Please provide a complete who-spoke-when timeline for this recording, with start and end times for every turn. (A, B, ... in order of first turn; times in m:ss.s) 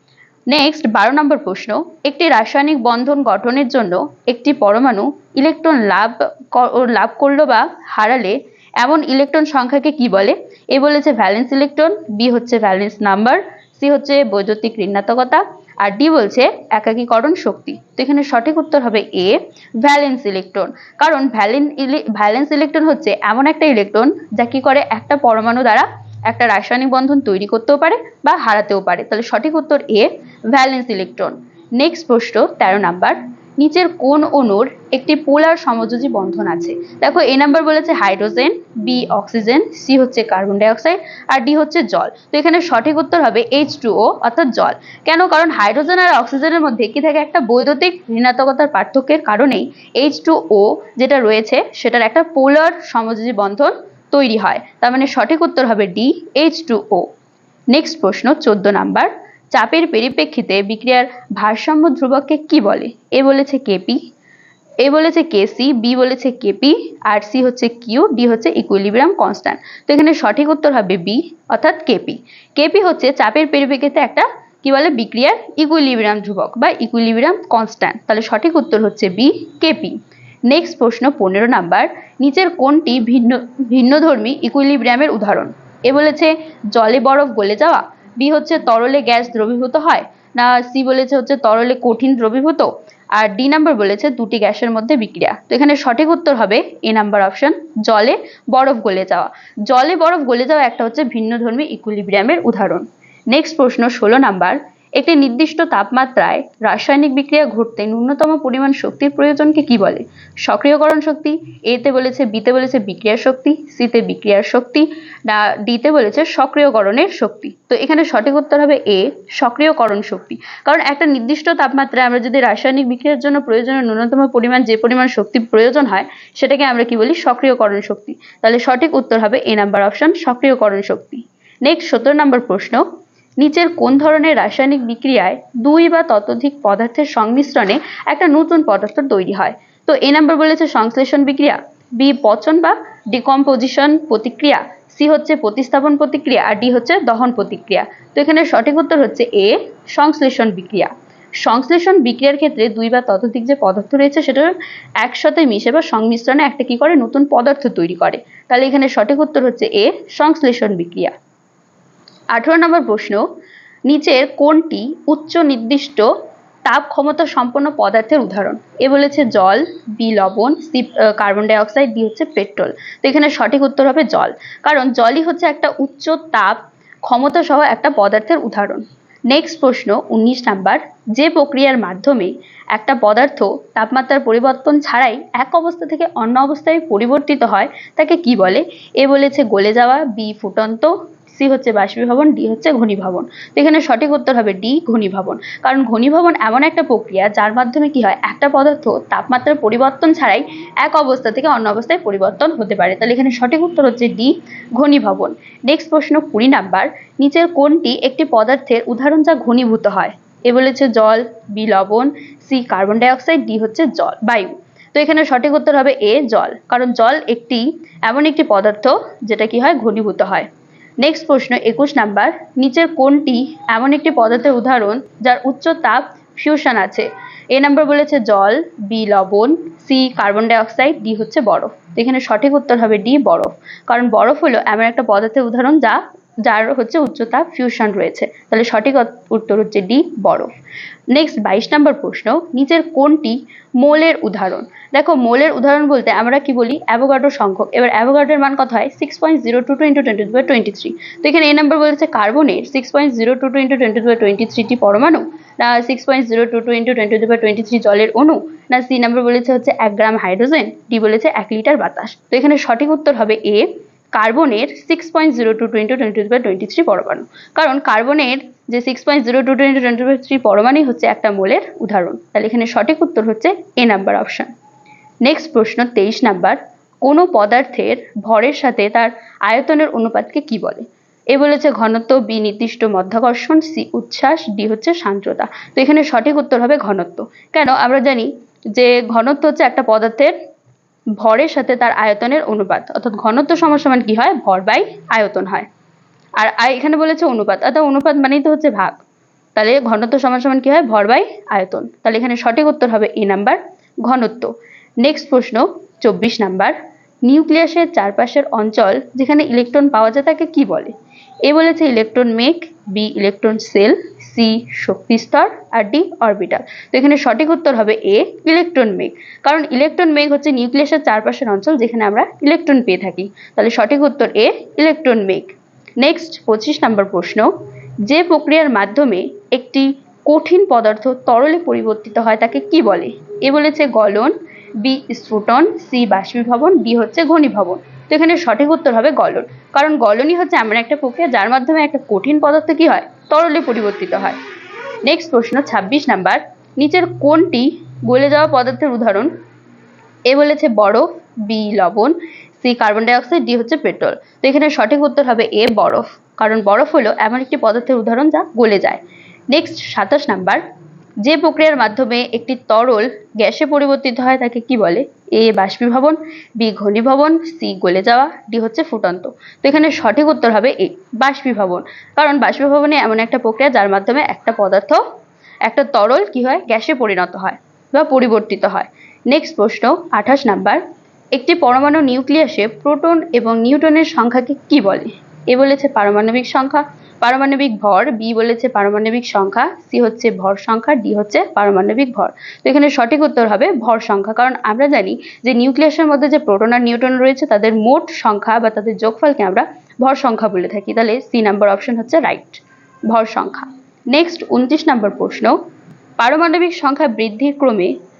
0:00.5-0:57.0 A
0:57.7-1:04.0 A
1:04.8-1:20.0 A
1:20.5-2:12.8 A
2:13.4-2:41.1 A
2:42.3-2:43.2 A
2:43.9-2:46.1 A
2:46.6-3:40.5 A
3:41.0-4:00.5 A
4:01.1-4:34.5 A
4:35.2-4:50.3 A
4:51.2-4:55.7 A
4:56.4-4:59.0 A
4:59.5-5:10.9 A
5:11.4-5:27.5 A
5:28.0-5:44.4 A
5:45.0-5:49.3 A
5:50.3-5:59.0 A
5:59.5-6:00.6 A
6:01.2-6:15.0 A
6:15.6-6:20.8 A
6:21.3-6:45.6 A
6:46.2-6:47.9 A